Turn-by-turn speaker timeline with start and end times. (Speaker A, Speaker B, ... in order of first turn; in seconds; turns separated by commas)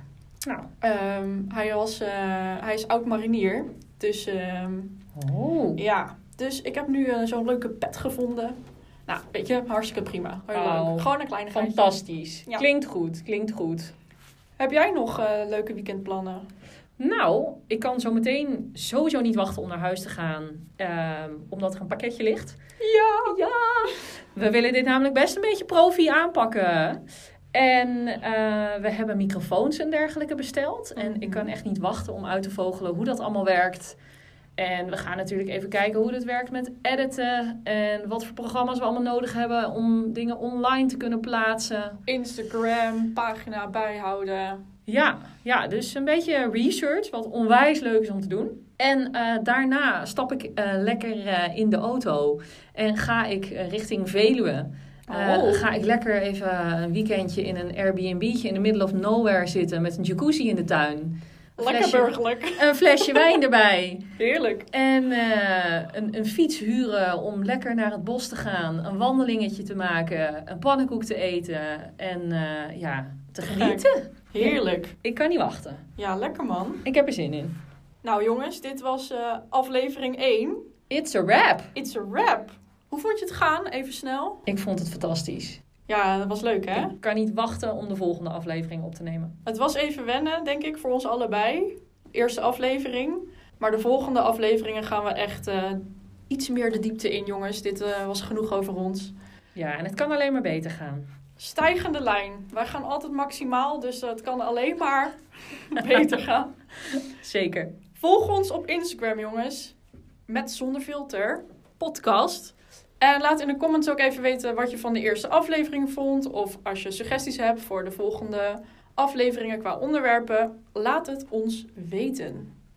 Speaker A: 0.4-0.7, Speaker B: 0.8-5.0, Speaker A: 5.1-5.8, Speaker B: 5.8-12.7, Speaker A: 10.5-13.9, Speaker B: 14.6-16.4, Speaker A: 17.0-22.6, Speaker B: 22.8-23.4, Speaker A: 23.2-27.0, Speaker A: 27.5-34.0, Speaker B: 31.0-31.5, Speaker A: 34.6-42.0, Speaker B: 42.0-44.6, Speaker A: 44.9-64.1, Speaker B: 55.1-55.7, Speaker B: 61.6-63.2, Speaker B: 64.2-64.7, Speaker A: 64.7-75.8, Speaker B: 73.5-74.9, Speaker B: 76.0-76.8, Speaker A: 76.8-77.5, Speaker B: 78.0-80.6, Speaker A: 80.9-81.7, Speaker B: 81.7-84.4, Speaker A: 84.5-85.6, Speaker B: 85.9-86.9, Speaker A: 86.7-89.3, Speaker B: 89.4-99.1, Speaker A: 99.5-101.1, Speaker B: 101.4-106.5, Speaker A: 106.9-107.7, Speaker B: 108.0-109.7, Speaker B: 110.3-111.4, Speaker A: 111.8-112.5, Speaker B: 113.0-122.5